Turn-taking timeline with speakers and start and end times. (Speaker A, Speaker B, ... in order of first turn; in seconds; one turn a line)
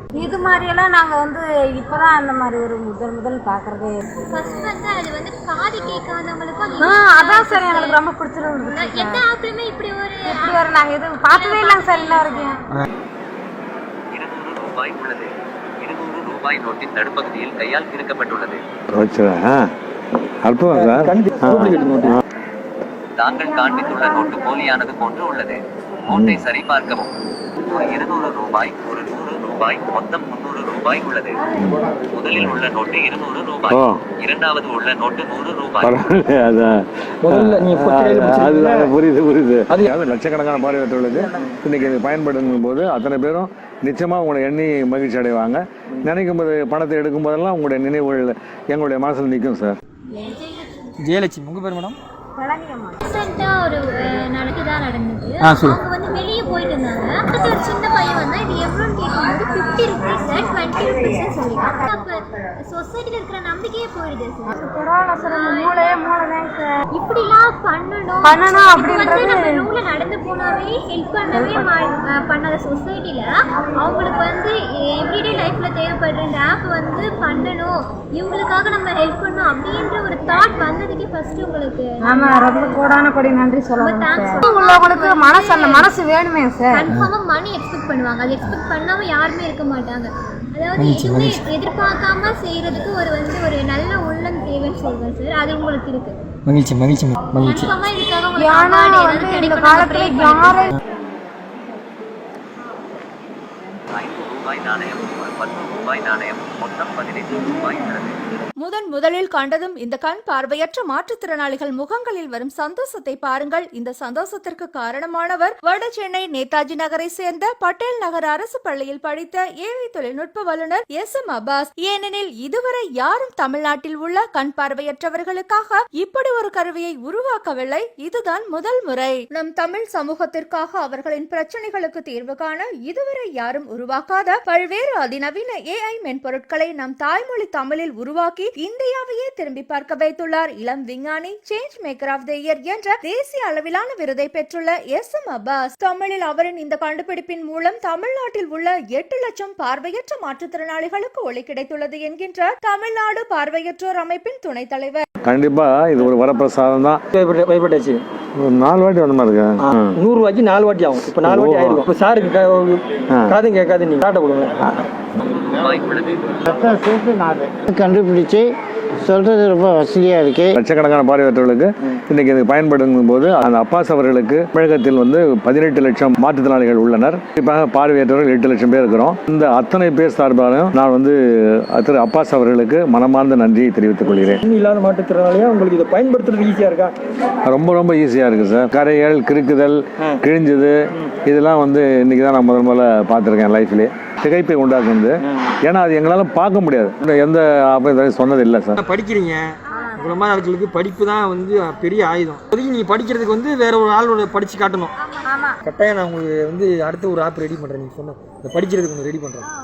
Speaker A: 0.1-4.0
Speaker B: 4.3-8.0
Speaker A: 6.8-9.3
Speaker B: 8.6-12.6
Speaker A: 10.3-12.6
Speaker C: 14.1-15.3
Speaker C: 15.8-18.6
Speaker D: 18.9-19.7
Speaker D: 20.4-22.2
Speaker E: 20.7-22.2
Speaker C: 23.2-27.1
Speaker D: 26.1-26.4
Speaker C: 27.6-31.4
Speaker C: 32.1-36.0
Speaker D: 32.3-32.6
Speaker D: 33.7-34.0
Speaker D: 35.8-49.8
Speaker E: 37.2-38.9
Speaker B: 50.1-50.9
Speaker E: 51.0-52.0
Speaker A: 52.4-53.0
Speaker B: 53.0-64.5
Speaker E: 55.4-55.8
Speaker A: 64.5-66.8
Speaker B: 65.2-66.0
Speaker B: 67.0-82.8
Speaker A: 68.2-69.7
Speaker A: 71.3-71.7
Speaker A: 82.0-86.9
Speaker B: 83.8-85.9
Speaker B: 86.7-96.1
Speaker E: 90.8-91.4
Speaker E: 96.5-97.7
Speaker B: 97.3-100.7
Speaker A: 98.3-100.8
Speaker C: 104.0-108.2
Speaker F: 108.6-155.0
Speaker D: 155.2-157.0
Speaker E: 157.2-158.0
Speaker D: 158.4-159.9
Speaker E: 159.6-164.7
Speaker D: 161.2-161.8
Speaker C: 165.2-166.4
Speaker G: 166.5-170.6
Speaker D: 170.5-184.4
Speaker E: 184.5-186.9
Speaker D: 187.5-198.8
Speaker E: 195.2-195.6
Speaker E: 198.8-204.9
Speaker A: 199.8-200.1
Speaker A: 205.2-205.6
Speaker E: 205.7-209.5